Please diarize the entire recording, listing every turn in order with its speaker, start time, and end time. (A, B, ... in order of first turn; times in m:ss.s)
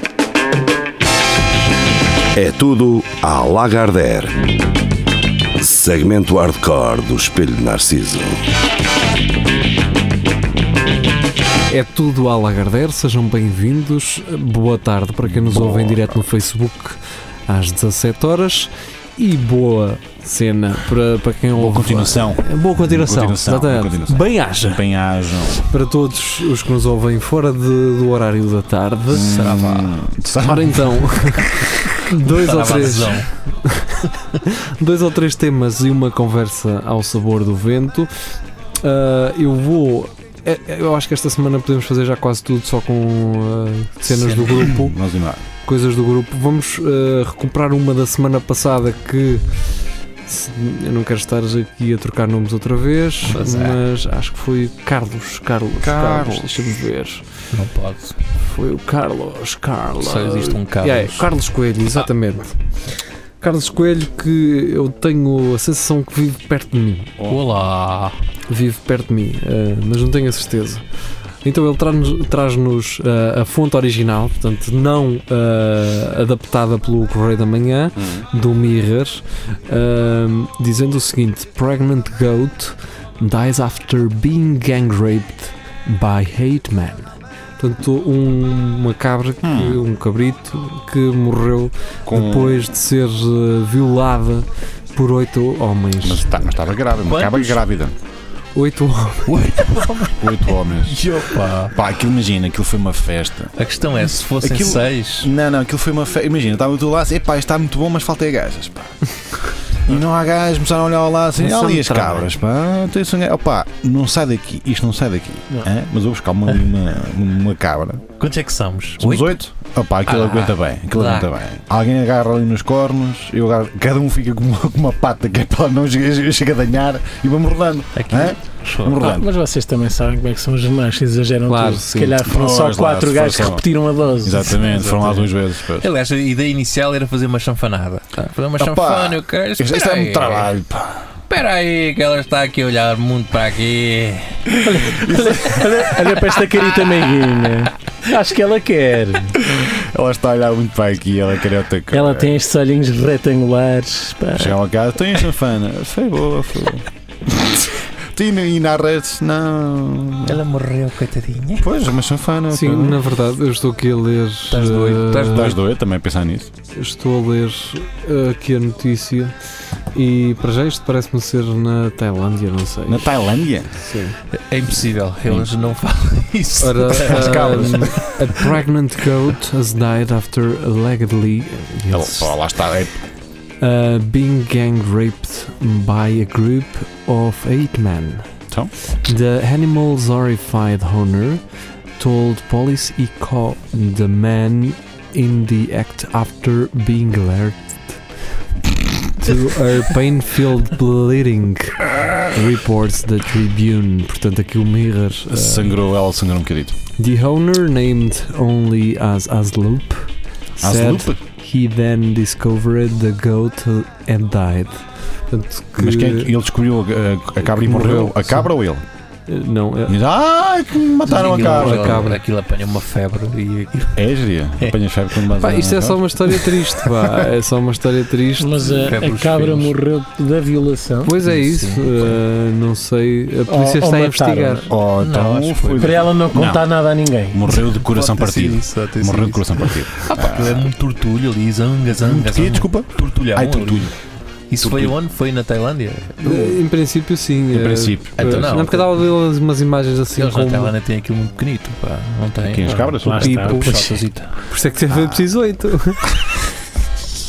0:02.3-0:04.5 A
0:05.6-0:08.5 A
0:11.7-0:24.8 B
0:15.2-0:16.2 C
0:21.6-0:25.6 C
0:25.6-0:29.3 B
0:29.1-0:31.7 C
0:29.2-0:30.0 D
0:30.4-0:38.1 B
0:32.2-0:33.3 D
0:38.8-0:45.0 B
0:44.0-0:44.7 D
0:44.6-0:45.4 C
0:45.6-0:49.4 B
0:50.3-0:57.3 B
0:53.2-0:53.8 D
0:55.8-0:56.7 C
0:57.5-0:58.2 D
0:58.4-1:02.6 B
1:00.0-1:01.3 D
1:03.4-1:07.1 B
1:07.2-1:07.4 C
1:07.3-1:08.2 D
1:08.5-1:10.8 B
1:11.4-1:36.3 B
1:18.0-1:18.3 C
1:29.4-1:29.8 C
1:32.1-1:32.7 C
1:36.0-1:38.0 C
1:37.0-1:37.6 D
1:38.5-1:39.4 B
1:39.3-1:41.7 D
1:40.2-1:41.0 C
1:41.7-1:43.5 C
1:43.5-1:45.3 D
1:44.4-1:58.1 C
1:51.5-1:52.2 B
1:58.2-1:59.4 D
1:59.0-2:09.3 C
2:00.1-2:01.3 D
2:08.0-2:09.1 D
2:09.0-2:14.6 E
2:11.5-2:12.2 B
2:12.2-2:13.7 C
2:14.2-2:15.9 C
2:14.5-2:20.5 D
2:18.6-2:21.1 C
2:21.3-2:24.4 D
2:24.5-2:29.6 E
2:24.9-2:25.5 C
2:29.4-2:32.3 C
2:31.9-2:34.6 E
2:34.3-2:40.4 C
2:40.3-2:41.7 D
2:41.6-2:43.0 C
2:42.5-2:45.5 B
2:44.5-2:45.6 D
2:45.3-2:46.5 C
2:46.7-2:49.3 B
2:49.9-2:53.2 B
2:52.9-2:53.8 C
2:53.7-2:54.2 B
2:54.5-2:58.6 D
2:56.6-3:02.4 B
2:56.9-2:58.1 C
3:01.9-3:03.0 C
3:03.6-3:08.3 B
3:08.9-3:11.4 B
3:12.0-3:17.6 B
3:19.1-3:25.8 B
3:25.3-3:26.8 C
3:27.0-3:36.3 B
3:30.6-3:31.2 C
3:35.8-3:38.8 C
3:37.4-3:38.5 B
3:39.3-3:40.0 B
3:39.9-3:42.1 C
3:41.0-3:44.0 D
3:41.2-3:42.2 B
3:44.0-3:46.4 C
3:44.6-3:45.2 D
3:45.4-3:48.8 B
3:48.4-3:51.2 E
3:48.8-3:49.7 D
3:51.0-3:54.7 B
3:51.2-3:52.2 D
3:53.5-3:54.7 E
3:54.7-3:56.7 C
3:55.0-3:56.1 D
3:55.8-3:57.4 E
3:57.3-4:00.7 C
3:57.5-4:03.9 D
4:01.9-4:03.9 C
4:04.5-4:06.5 D
4:04.6-4:05.0 C
4:06.2-4:10.8 B
4:06.3-4:06.6 C
4:07.5-4:08.7 C
4:08.2-4:09.1 D
4:10.2-4:14.3 D
4:12.4-4:13.7 C
4:12.6-4:14.0 E
4:13.2-4:13.9 B
4:14.5-4:16.3 B
4:14.9-4:15.3 C